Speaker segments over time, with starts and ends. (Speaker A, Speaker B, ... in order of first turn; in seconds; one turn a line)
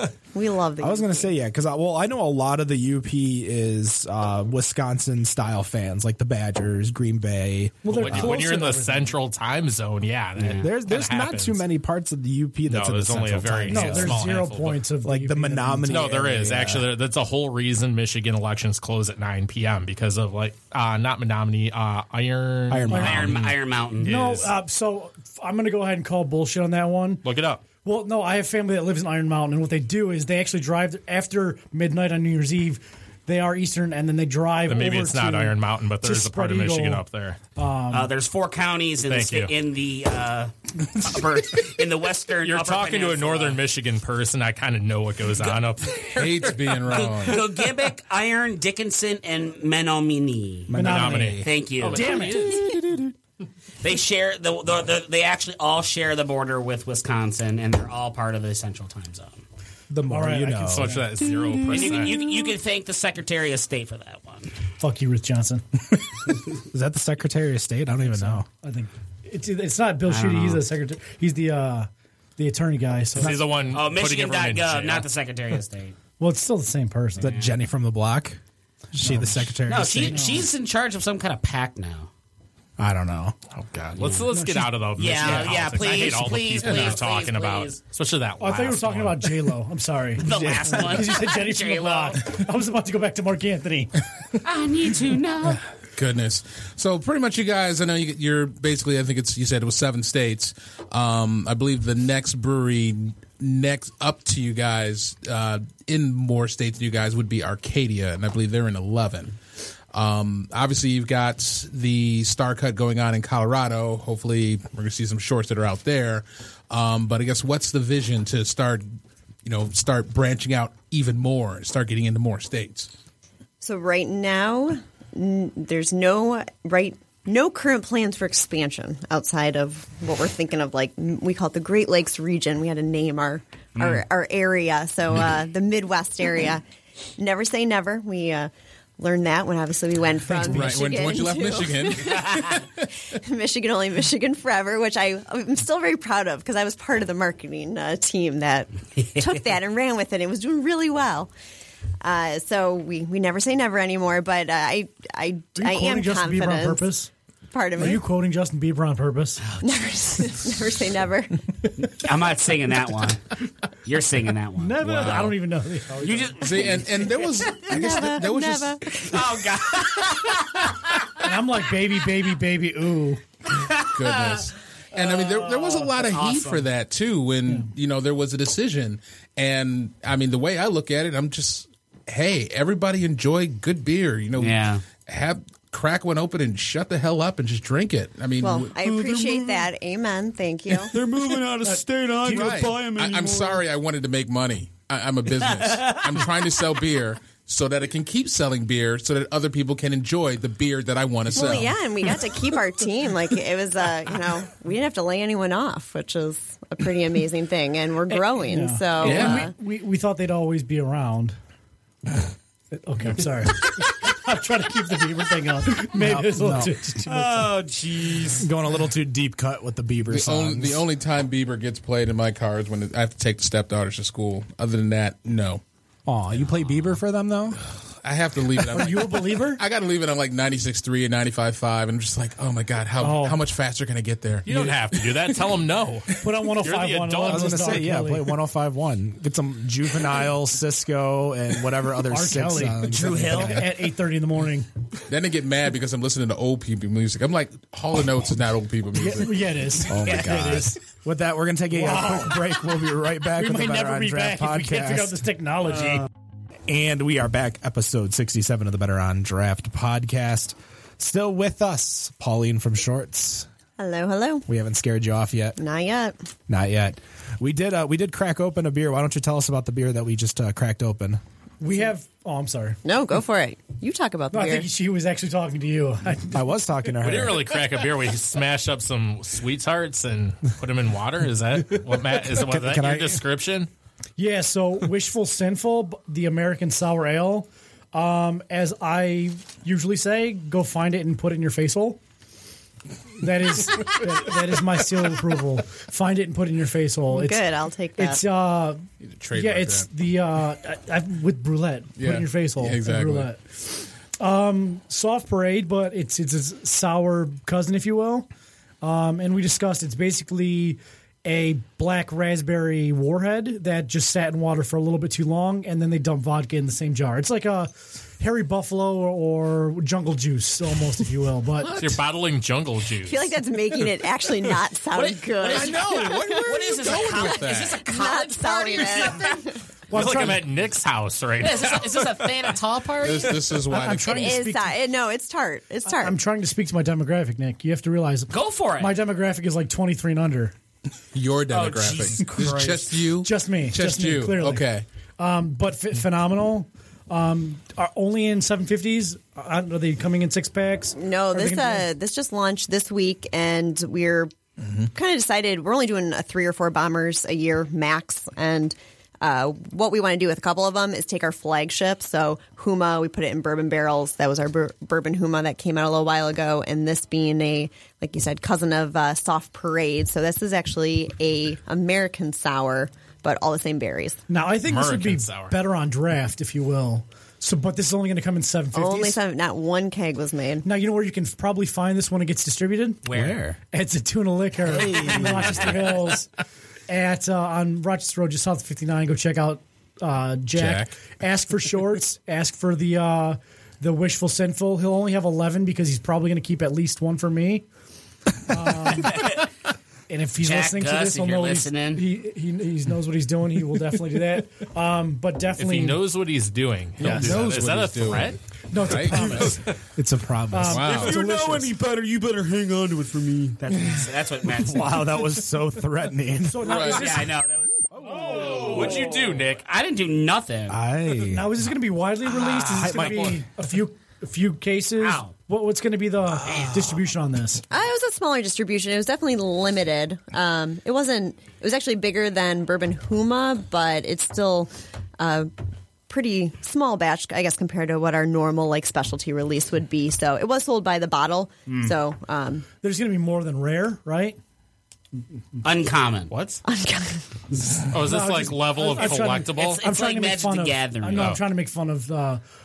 Speaker A: 0.3-1.3
Speaker B: 0.8-8.4
Speaker C: 7.8-9.2
Speaker D: 7.9-11.7
Speaker E: 10.4-10.7
Speaker B: 10.6-14.2
Speaker D: 12.7-14.8
Speaker C: 13.7-16.2
Speaker B: 15.0-16.9
Speaker D: 15.9-24.5
Speaker B: 22.7-23.4
Speaker E: 22.9-24.2
Speaker C: 24.0-27.2
Speaker D: 27.2-27.6
Speaker C: 27.8-38.1
Speaker D: 34.6-37.4
Speaker E: 37.9-43.6
Speaker D: 39.0-39.5
Speaker D: 42.4-46.5
Speaker F: 46.1-47.6
Speaker E: 46.2-50.8
Speaker B: 50.7-51.4
Speaker C: 50.7-51.4
Speaker D: 50.8-52.8
Speaker E: 51.3-52.3
Speaker C: 51.9-52.6
Speaker E: 53.8-59.4
Speaker B: 59.9-61.0
Speaker C: 60.1-61.0
Speaker D: 60.6-62.3
Speaker E: 61.6-64.6
Speaker C: 64.8-65.6
Speaker B: 66.7-68.5
Speaker C: 68.0-73.4
Speaker E: 70.0-70.7
Speaker D: 73.2-75.1
Speaker E: 73.6-76.0
Speaker C: 76.2-77.3
Speaker E: 77.2-77.6
Speaker B: 77.2-78.4
Speaker B: 78.9-80.3
Speaker C: 79.0-79.5
Speaker E: 79.6-82.1
Speaker C: 80.0-80.4
Speaker B: 82.8-83.3
Speaker D: 83.5-89.4
Speaker E: 84.0-84.3
Speaker C: 84.3-85.4
Speaker E: 84.9-87.8
Speaker C: 88.4-94.0
Speaker E: 90.2-92.4
Speaker B: 90.3-91.0
Speaker E: 94.4-95.6
Speaker F: 95.9-109.3
Speaker F: 109.9-118.9
Speaker F: 119.4-122.9
Speaker A: 123.6-136.6
Speaker A: 137.2-151.3
Speaker C: 140.2-141.2
Speaker F: 140.5-142.6
Speaker A: 152.0-156.8
Speaker C: 155.6-157.1
Speaker A: 157.5-158.0
Speaker C: 157.7-159.4
Speaker A: 159.6-161.4
Speaker E: 161.8-165.4
Speaker C: 164.6-166.6
Speaker E: 165.9-168.3
Speaker F: 166.4-169.0
Speaker A: 167.6-169.2
Speaker E: 168.9-171.3
Speaker C: 171.2-173.2
Speaker E: 173.5-174.4
Speaker F: 173.9-188.7
Speaker C: 175.4-175.9
Speaker E: 175.9-176.7
Speaker E: 184.4-184.8
Speaker A: 188.4-190.9
Speaker G: 188.7-189.7
Speaker G: 190.9-193.6
Speaker C: 191.6-192.6
Speaker F: 192.3-201.7
Speaker E: 195.5-196.1
Speaker A: 201.3-209.5
Speaker C: 208.1-211.4
Speaker F: 209.0-209.4
Speaker C: 212.7-217.5
Speaker B: 215.9-216.8
Speaker G: 217.1-218.4
Speaker E: 217.4-218.4
Speaker B: 218.4-220.8
Speaker F: 220.1-225.6
Speaker B: 226.1-227.6
Speaker F: 227.6-235.5
Speaker C: 228.7-229.6
Speaker C: 233.0-233.4
Speaker D: 234.4-237.8
Speaker C: 236.2-238.3
Speaker B: 237.2-243.7
Speaker C: 242.1-244.7
Speaker E: 242.8-243.7
Speaker F: 245.1-249.6
Speaker C: 248.9-250.7
Speaker B: 249.9-255.2
Speaker E: 250.0-250.6
Speaker C: 251.7-252.7
Speaker C: 253.3-256.1
Speaker B: 256.7-263.5
Speaker A: 263.8-264.4
Speaker B: 264.5-265.6
Speaker A: 265.6-266.1
Speaker B: 266.5-271.2
Speaker C: 271.6-272.8
Speaker A: 272.8-274.7
Speaker C: 274.3-276.4
Speaker B: 276.3-277.5
Speaker D: 277.0-283.7
Speaker B: 282.2-283.2
Speaker C: 284.2-292.0
Speaker C: 293.2-308.3
Speaker A: 297.1-298.2
Speaker F: 299.0-299.9
Speaker F: 302.0-303.3
Speaker C: 308.8-321.9
Speaker D: 321.8-323.3
Speaker A: 323.0-329.5
Speaker E: 324.9-329.4
Speaker F: 325.5-327.8
Speaker C: 329.9-330.5
Speaker D: 329.9-332.6
Speaker E: 331.4-333.6
Speaker F: 333.0-334.4
Speaker C: 333.6-334.7
Speaker A: 334.1-336.1
Speaker C: 335.9-340.5
Speaker E: 338.3-339.0
Speaker F: 341.1-344.8
Speaker E: 341.5-343.0
Speaker C: 343.1-351.9
Speaker A: 350.9-354.3
Speaker F: 354.6-354.9
Speaker A: 354.9-374.2
Speaker C: 374.3-379.2
Speaker D: 374.6-375.6
Speaker A: 378.7-380.6
Speaker C: 380.6-383.0
Speaker E: 383.0-383.4
Speaker B: 383.1-383.6
Speaker C: 383.7-386.3
Speaker E: 384.6-386.1
Speaker B: 384.8-385.8
Speaker C: 386.9-397.6
Speaker F: 390.5-390.9
Speaker C: 398.5-399.2
Speaker E: 399.0-399.4
Speaker C: 400.1-406.0
Speaker E: 400.4-402.0
Speaker D: 405.6-408.4
Speaker F: 407.0-409.7
Speaker B: 407.0-408.2
Speaker C: 408.7-409.7
Speaker B: 409.9-411.8
Speaker C: 410.5-411.8
Speaker F: 410.7-411.2
Speaker G: 410.9-413.5
Speaker B: 412.8-416.7
Speaker E: 413.6-415.2
Speaker C: 416.4-417.4
Speaker F: 416.6-417.2
Speaker E: 416.7-420.8
Speaker B: 418.1-418.5
Speaker D: 418.4-419.6
Speaker B: 420.7-421.6
Speaker C: 421.2-427.6
Speaker B: 422.4-423.4
Speaker E: 425.0-425.4
Speaker B: 426.3-427.0
Speaker A: 427.7-435.5
Speaker A: 436.1-442.6
Speaker E: 441.7-441.9
Speaker C: 442.8-444.4
Speaker E: 445.6-446.3
Speaker D: 446.3-446.6
Speaker A: 446.6-447.2
Speaker D: 447.9-449.8
Speaker C: 447.9-452.4
Speaker E: 448.9-451.4
Speaker D: 451.1-451.4